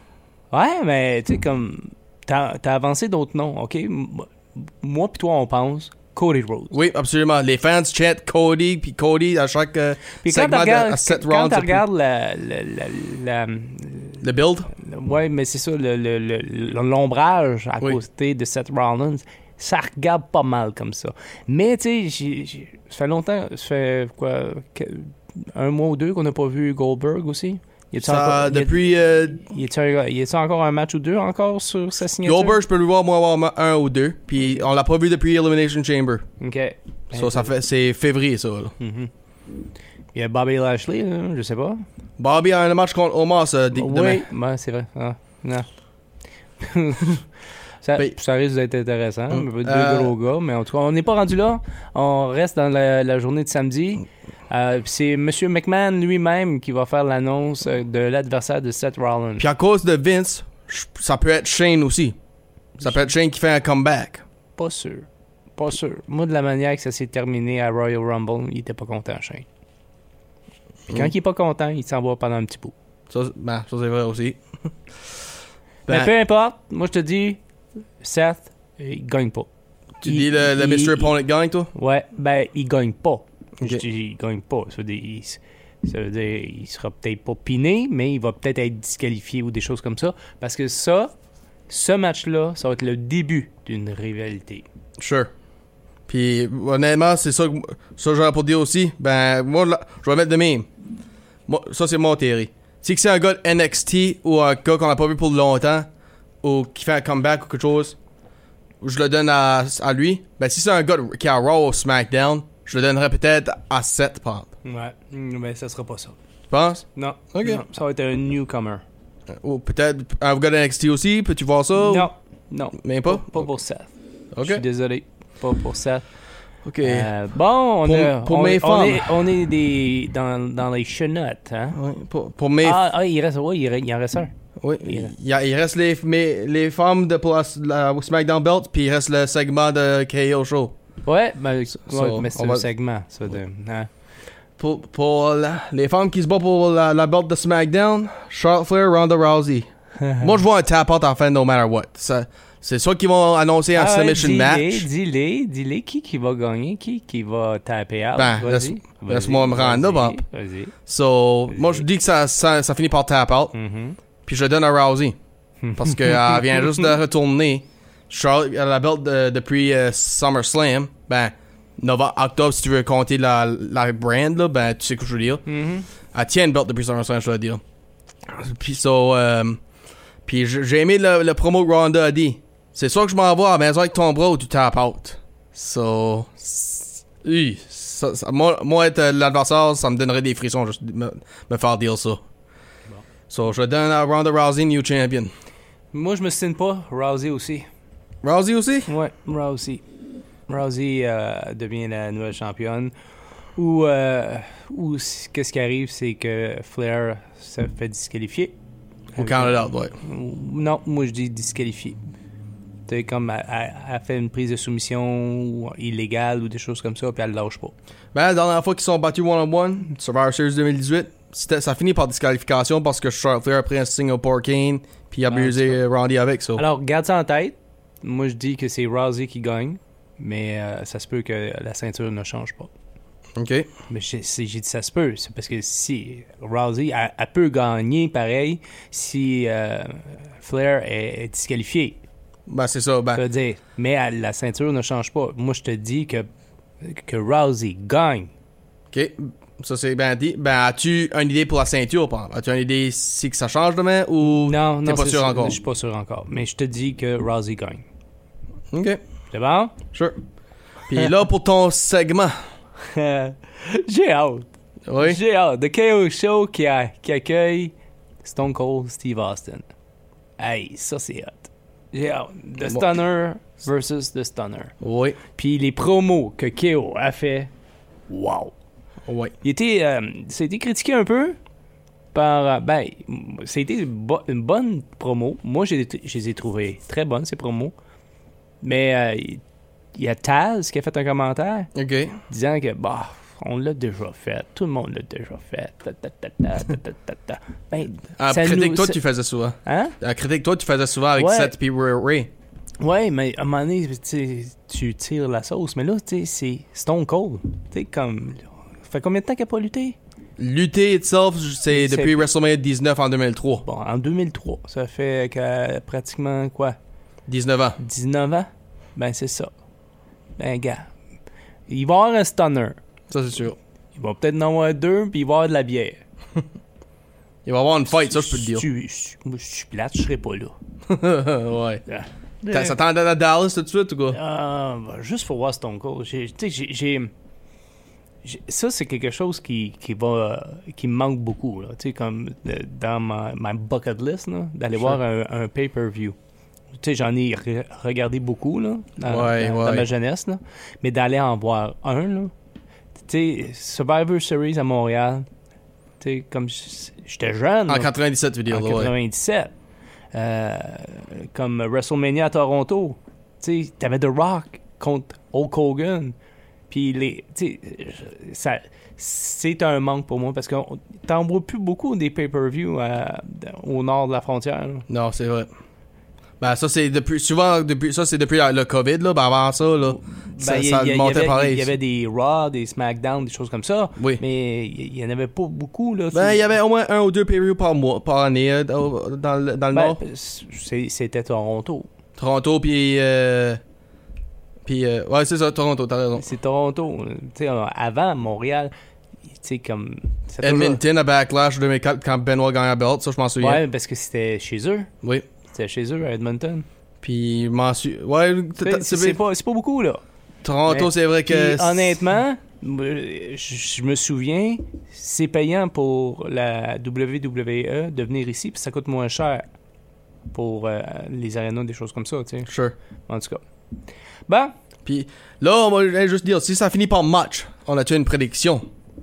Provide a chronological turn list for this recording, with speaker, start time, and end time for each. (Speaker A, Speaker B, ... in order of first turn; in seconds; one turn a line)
Speaker A: 0.5-6.8
Speaker B: 6.7-11.8
Speaker A: 10.2-28.8
Speaker B: 14.2-14.7
Speaker B: 28.0-29.5
Speaker A: 29.3-32.6
Speaker B: 32.2-36.2
Speaker A: 36.4-37.5
Speaker B: 37.1-38.8
Speaker A: 38.8-39.1
Speaker A: 40.1-41.8
Speaker B: 42.2-44.2
Speaker A: 43.7-45.7
Speaker A: 46.6-47.3
Speaker A: 47.8-59.5
Speaker B: 49.3-50.1
Speaker B: 59.4-62.2
Speaker B: 62.8-64.2
Speaker A: 64.6-69.5
Speaker A: 70.9-72.7
Speaker B: 73.1-74.4
Speaker A: 75.9-77.4
Speaker A: 78.0-79.5
Speaker B: 80.0-81.7
Speaker A: 80.0-81.1
Speaker A: 81.7-91.1
Speaker A: 91.7-94.7
Speaker B: 95.0-95.3
Speaker B: 96.1-100.7
Speaker B: 101.5-105.9
Speaker B: 106.4-108.0
Speaker B: 108.8-114.5
Speaker A: 114.6-116.2
Speaker B: 116.5-117.6
Speaker A: 117.0-118.8
Speaker B: 119.3-122.1
Speaker A: 121.8-123.9
Speaker B: 122.8-123.5
Speaker B: 124.3-124.6
Speaker A: 124.4-126.0
Speaker B: 126.7-127.1
Speaker A: 126.8-131.8
Speaker B: 127.8-129.2
Speaker B: 131.7-132.8
Speaker A: 132.6-134.3
Speaker B: 134.6-140.8
Speaker A: 134.8-135.1
Speaker A: 141.1-143.9
Speaker B: 141.8-142.7
Speaker B: 144.6-149.7
Speaker A: 150.0-150.3
Speaker B: 150.2-154.9
Speaker A: 153.8-160.8
Speaker B: 158.2-160.2
Speaker B: 160.9-163.6
Speaker A: 161.5-161.8
Speaker A: 163.5-164.0
Speaker B: 164.3-165.2
Speaker A: 165.6-166.9
Speaker B: 165.8-175.4
Speaker A: 175.5-175.9
Speaker B: 176.1-177.6
Speaker B: 178.3-179.6
Speaker B: 180.3-192.2
Speaker B: 193.3-195.3
Speaker A: 195.9-197.7
Speaker B: 198.2-198.9
Speaker A: 198.9-199.8
Speaker A: 200.5-202.9
Speaker A: 203.6-208.5
Speaker B: 209.2-210.0
Speaker A: 209.2-212.0
Speaker A: 212.9-217.7
Speaker B: 218.1-226.6
Speaker A: 225.3-225.8
Speaker A: 226.6-232.7
Speaker B: 233.4-233.7
Speaker A: 233.9-242.0
Speaker B: 242.5-243.2
Speaker A: 243.2-246.3
Speaker A: 246.8-248.3
Speaker B: 248.9-255.6
Speaker A: 254.2-257.9
Speaker B: 258.7-259.0
Speaker A: 259.3-259.8
Speaker B: 260.9-262.4
Speaker A: 262.8-264.5
Speaker B: 264.9-265.2
Speaker A: 265.0-267.7
Speaker A: 268.2-269.7
Speaker A: 270.4-274.8
Speaker B: 274.8-275.2
Speaker A: 275.4-277.5
Speaker A: 278.1-278.5
Speaker B: 279.1-279.3
Speaker A: 279.4-281.4
Speaker A: 282.1-287.7
Speaker A: 288.6-289.4
Speaker A: 289.9-291.7
Speaker B: 291.8-292.2
Speaker A: 292.3-299.0
Speaker B: 298.2-302.3
Speaker A: 299.6-300.0
Speaker A: 301.2-301.5
Speaker A: 302.8-310.0
Speaker B: 310.4-313.6
Speaker A: 311.7-312.2
Speaker A: 313.6-316.8
Speaker B: 317.3-317.8
Speaker A: 317.8-319.5
Speaker A: 320.4-320.9
Speaker A: 321.7-322.8
Speaker B: 323.1-323.6
Speaker A: 324.0-326.0
Speaker B: 327.4-328.6
Speaker A: 328.0-330.5
Speaker B: 330.9-331.8
Speaker A: 331.9-332.8
Speaker B: 332.5-334.2
Speaker A: 334.1-337.1
Speaker A: 338.2-346.2
Speaker A: 346.8-352.3
Speaker B: 349.1-349.9
Speaker A: 353.1-355.3
Speaker A: 356.0-357.9
Speaker B: 357.7-358.9
Speaker A: 358.5-359.5
Speaker A: 360.1-366.1
Speaker A: 366.7-374.9
Speaker B: 374.9-375.5
Speaker B: 376.4-381.7
Speaker A: 379.9-386.5
Speaker B: 386.1-390.0
Speaker A: 389.7-391.9
Speaker B: 392.2-393.6
Speaker B: 394.7-396.2
Speaker A: 396.2-398.7
Speaker A: 399.4-400.8
Speaker B: 400.4-403.6
Speaker A: 403.4-404.9
Speaker A: 405.5-406.7
Speaker B: 407.0-409.2
Speaker A: 408.6-410.0
Speaker B: 410.4-412.0
Speaker A: 410.7-419.4
Speaker A: 420.3-422.5
Speaker B: 422.5-422.8
Speaker A: 423.1-423.4
Speaker A: 424.3-424.5
Speaker B: 424.9-428.6